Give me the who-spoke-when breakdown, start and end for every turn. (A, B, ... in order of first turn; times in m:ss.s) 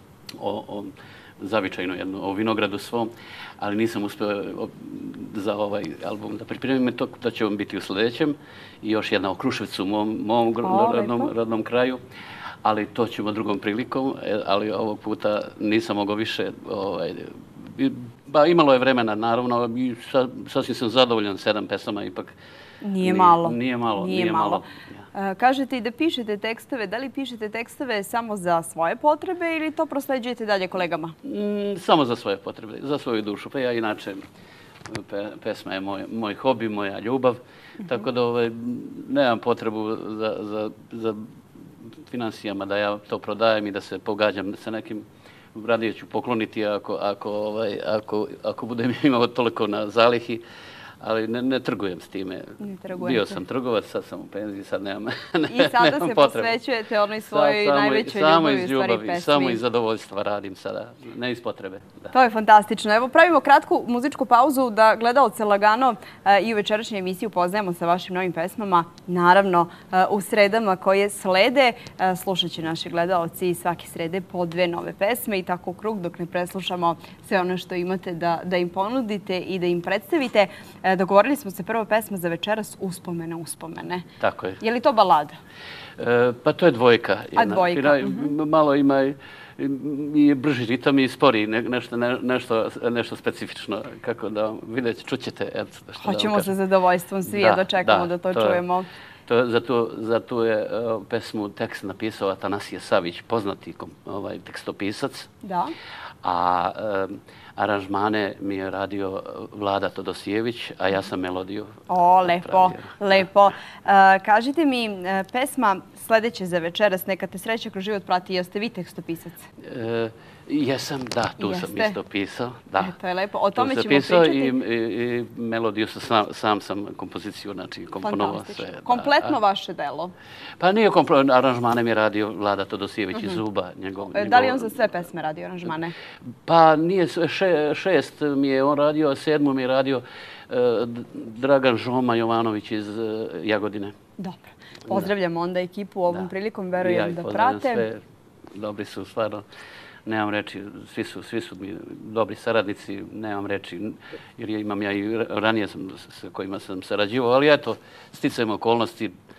0:00.4-0:12.0 A
0:10.6-0:11.3 B
0:12.6-0:22.3 A
0:22.8-0:24.6 B
0:23.0-0:25.0 A
0:25.1-0:31.2 B
0:31.2-0:34.2 A
0:34.9-0:41.3 A
0:42.1-0:50.4 A
0:51.0-0:56.6 A
0:52.6-0:53.4 B
0:55.5-0:59.6 B
0:57.2-1:02.1 A
1:02.1-1:24.0 B
1:24.2-1:24.6 A
1:24.6-1:25.4 B
1:26.0-1:36.5 A
1:27.4-1:28.3 B
1:36.0-1:38.9 B
1:37.3-1:38.6 A
1:39.3-1:45.3 A
1:45.4-1:45.7 B
1:46.2-1:53.2 A
1:51.9-1:59.4 B
1:59.6-2:02.9 A
2:01.4-2:02.0 B
2:02.8-2:04.6 B
2:03.5-2:09.3 A
2:08.0-2:10.1 B
2:10.6-2:14.9 A
2:14.1-2:15.9 B
2:16.4-2:23.9 A
2:24.2-2:27.8 B
2:26.1-2:28.0 A
2:28.5-2:29.4 A
2:30.0-2:39.1 A